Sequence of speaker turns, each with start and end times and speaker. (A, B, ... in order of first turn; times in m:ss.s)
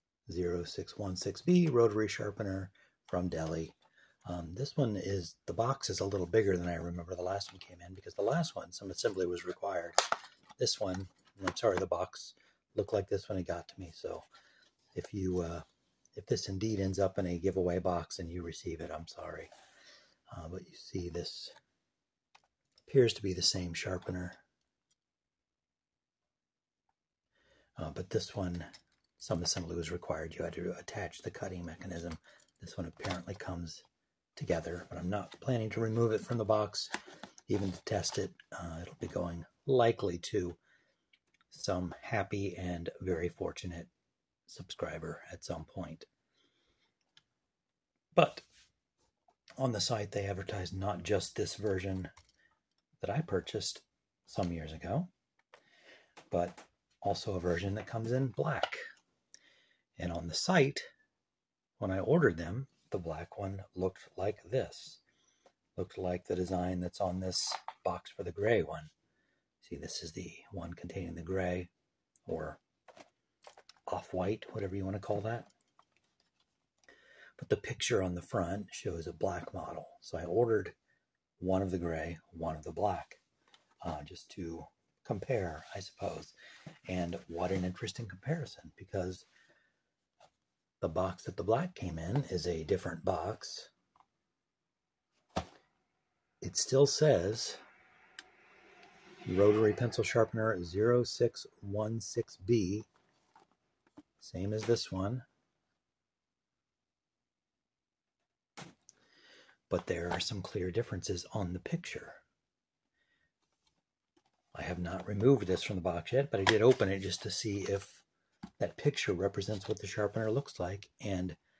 0:00.3-0:10.0 A
0:10.6-0:14.2 A
0:14.9-0:19.5 A
0:20.3-0:21.5 A
0:22.8-0:24.4 A
0:27.8-0:33.8 A
0:34.4-0:36.9 A
0:37.5-0:40.6 A
0:41.5-0:43.9 A
0:44.5-0:46.1 A
0:48.1-0:48.4 A
0:49.6-0:52.1 A
0:53.0-0:55.1 A
0:56.3-0:58.8 A
1:00.0-1:00.9 A
1:01.8-1:05.0 A
1:05.8-1:08.9 A
1:09.6-1:11.7 A
1:12.2-1:12.6 A
1:13.9-1:15.5 A
1:17.4-1:20.8 A
1:21.4-1:23.2 A
1:23.8-1:26.3 A
1:26.9-1:29.3 A
1:30.8-1:33.7 A
1:36.4-1:37.6 A
1:39.2-1:42.9 A
1:44.2-1:45.2 A
1:49.7-1:52.2 A
1:54.5-1:58.0 A
1:58.6-2:01.4 A